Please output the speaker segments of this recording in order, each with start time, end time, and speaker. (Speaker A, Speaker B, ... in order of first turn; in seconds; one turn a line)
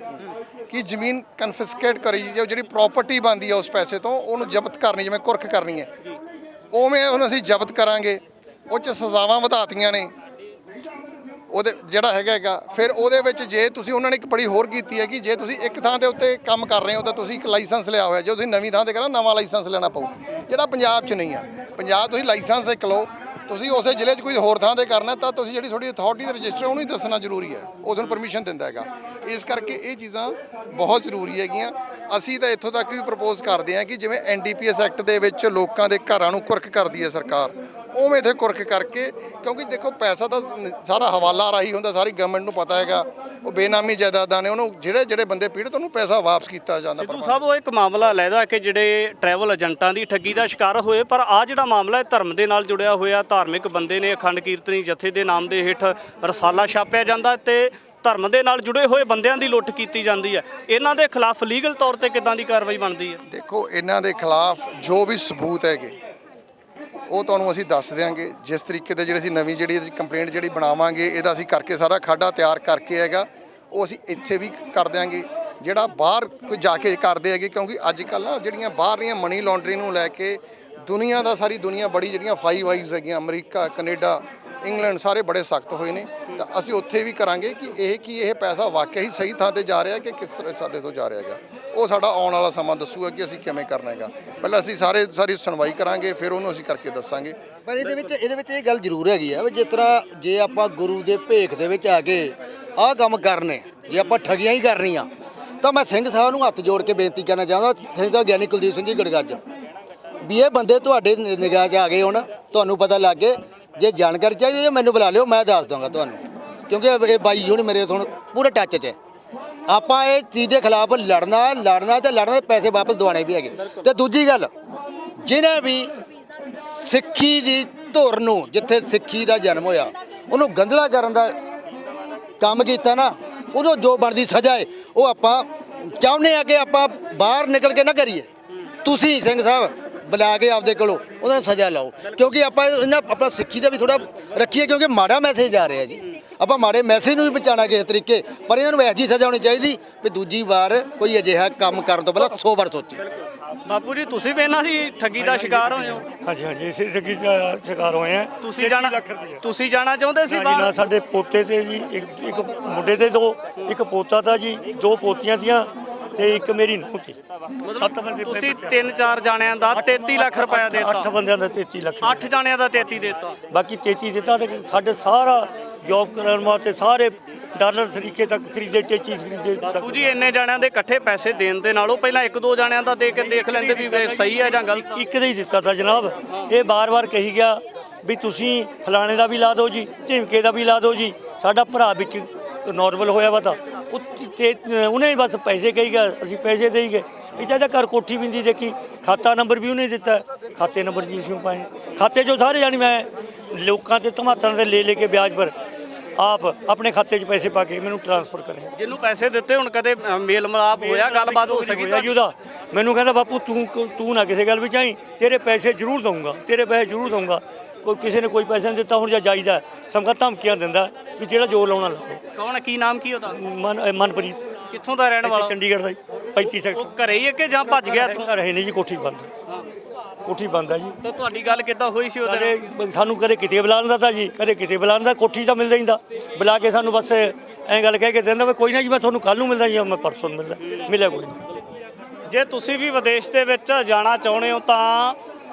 Speaker A: 0.7-5.9
Speaker A: 6.7-10.1
Speaker A: 11.5-47.4
Speaker B: 47.0-63.2
Speaker A: 63.3-65.9
Speaker A: 67.1-97.4
Speaker C: 97.7-105.1
Speaker C: 105.6-109.4
Speaker C: 110.2-118.9
Speaker C: 119.7-124.5
Speaker C: 125.2-125.9
Speaker C: 126.8-131.3
Speaker C: 132.4-138.3
Speaker C: 138.8-153.0
Speaker B: 153.1-156.0
Speaker D: 155.2-159.4
Speaker B: 158.4-160.7
Speaker D: 160.3-167.2
Speaker B: 167.7-171.1
Speaker D: 167.7-168.9
Speaker D: 169.7-172.3
Speaker B: 172.0-173.3
Speaker D: 173.5-180.1
Speaker B: 179.6-185.0
Speaker D: 183.2-205.5
Speaker D: 206.2-208.7
Speaker B: 208.8-212.2
Speaker D: 210.8-222.2
Speaker B: 222.3-223.4
Speaker D: 223.3-224.4
Speaker B: 224.7-225.5
Speaker D: 225.2-226.9
Speaker B: 226.7-228.3
Speaker D: 227.6-229.3
Speaker D: 230.2-230.9
Speaker B: 231.0-232.6
Speaker D: 232.2-241.4
Speaker B: 240.6-240.9
Speaker B: 242.3-245.2